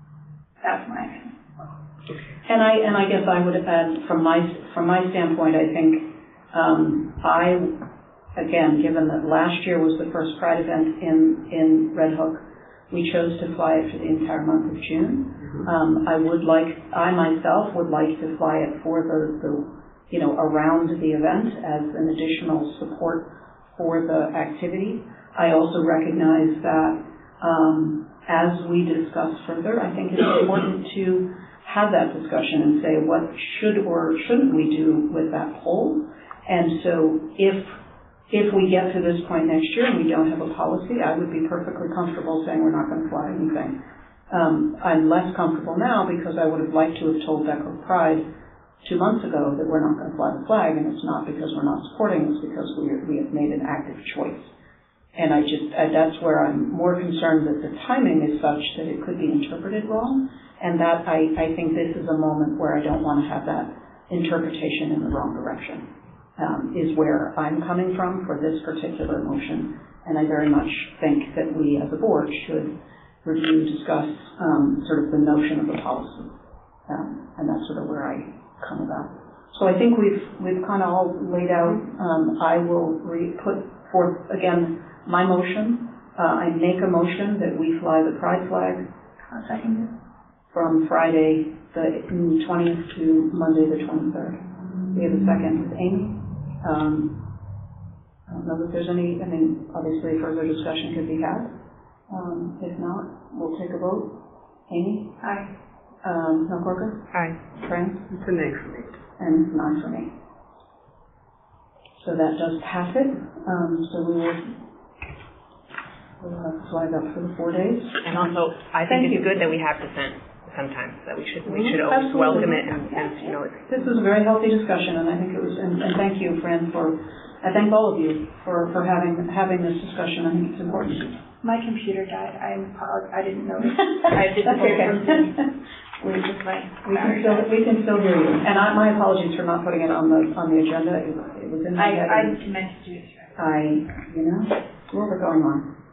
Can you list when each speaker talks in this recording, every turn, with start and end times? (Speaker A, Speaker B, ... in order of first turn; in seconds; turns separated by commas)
Speaker A: 0.6-1.7, Speaker B: 2.5-7.8, Speaker B: 8.3-37.6, Speaker B: 38.3-43.8, Speaker B: 44.3-48.2, Speaker B: 48.8-54.5, Speaker B: 55.1-65.8, Speaker B: 66.4-72.7, Speaker B: 73.2-76.3, Speaker B: 76.9-88.8, Speaker A: 89.3-89.9, Speaker B: 90.5-94.4, Speaker B: 94.9-97.3, Speaker B: 98.3-101.5, Speaker B: 102.1-105.2, Speaker A: 105.2-105.5, Speaker B: 106.0-108.1, Speaker C: 107.1-107.4, Speaker B: 109.2-110.1, Speaker B: 112.0-114.6, Speaker B: 116.2-118.0, Speaker C: 118.0-123.8, Speaker B: 118.9-119.5, Speaker B: 121.5-122.7, Speaker A: 122.3-123.4, Speaker B: 123.7-131.2, Speaker A: 131.4-135.5, Speaker B: 134.4-135.5, Speaker A: 136.1-137.5, Speaker B: 136.8-142.4, Speaker A: 141.8-143.4, Speaker B: 143.4-145.7